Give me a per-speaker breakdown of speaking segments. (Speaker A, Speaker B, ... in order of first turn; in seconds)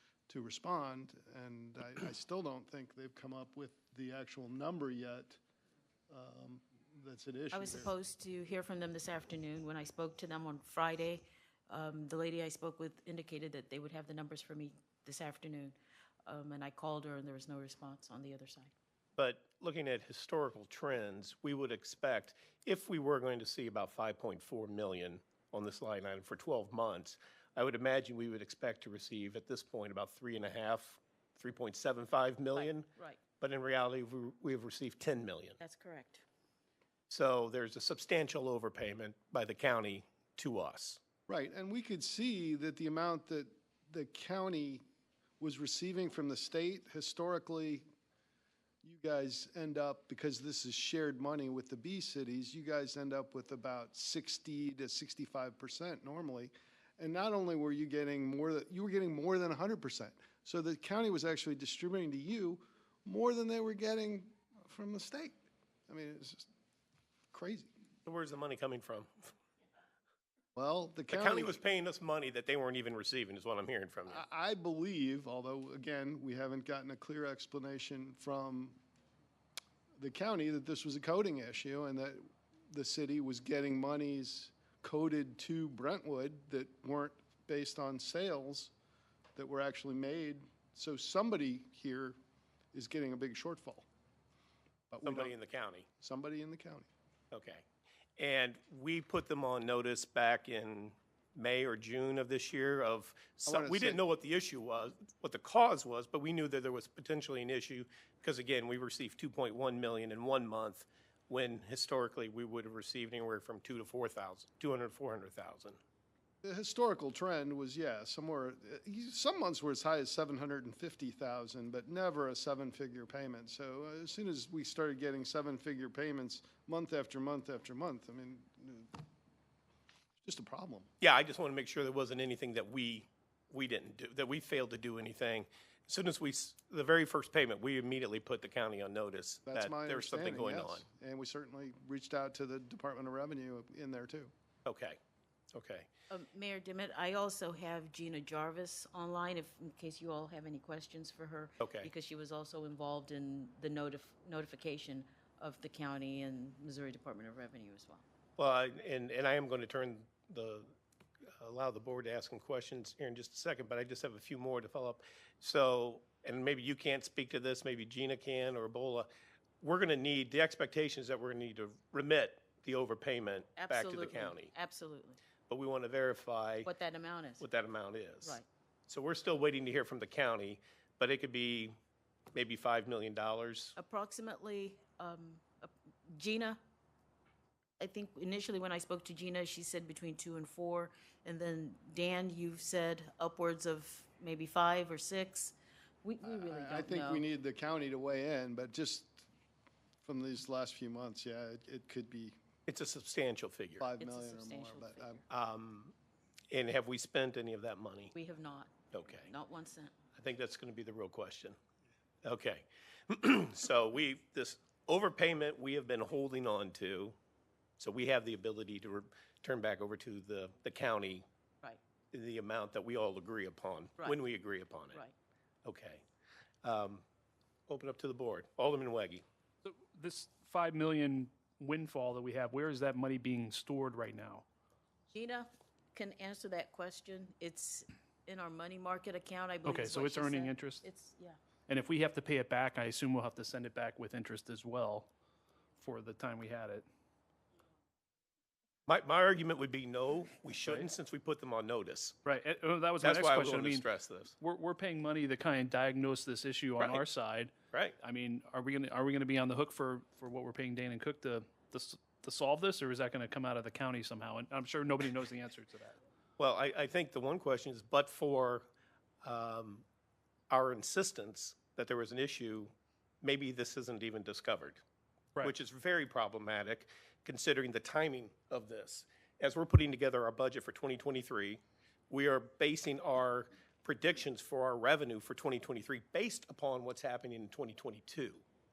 Speaker A: 0.3-5.4, 6.1-7.9, 41.3-44.8, 45.4-47.9, 48.8-65.3, 65.9-66.5, 67.3-67.7, 70.5-71.6, 74.1-78.8, 80.0-88.7, 89.3-92.2, 92.7-93.9, 94.9-95.3, 96.0-96.9, 103.5-104.0, 116.4-128.9, 130.2-130.9, 139.5-144.3, 196.2-199.3, 200.0-202.3, 203.8-205.2
Speaker B: 7.5-18.7, 32.5-33.2, 35.6-36.2, 146.1-158.0, 173.6-175.2, 176.6-177.4, 183.8-186.6, 187.8-197.2, 204.0-205.2, 208.1-209.9, 235.1-241.4
Speaker C: 19.2-35.6, 37.1-41.0, 68.0-69.3, 71.1-74.2, 95.0-95.9, 97.3-97.6, 98.2-115.8, 131.0-140.8, 144.6-145.0, 145.5-145.9, 151.6-151.9, 158.4-160.7, 161.4-169.1, 169.6-174.5, 175.5-176.7, 177.4-181.7, 182.3-183.8, 202.7-203.9, 205.3-205.9, 206.5-208.1, 208.9-209.3, 210.2-211.6, 212.2-217.2, 217.8-221.2, 222.1-225.0, 225.6-226.0, 226.6-227.0, 227.7-229.2, 248.9-252.2, 253.0-254.3, 257.7-258.0, 266.4-268.6, 269.2-269.8, 270.5-274.8, 275.4-288.4
Speaker D: 229.6-234.4, 239.6-240.8, 241.7-245.1, 245.8-246.8, 252.2-253.8, 254.4-266.0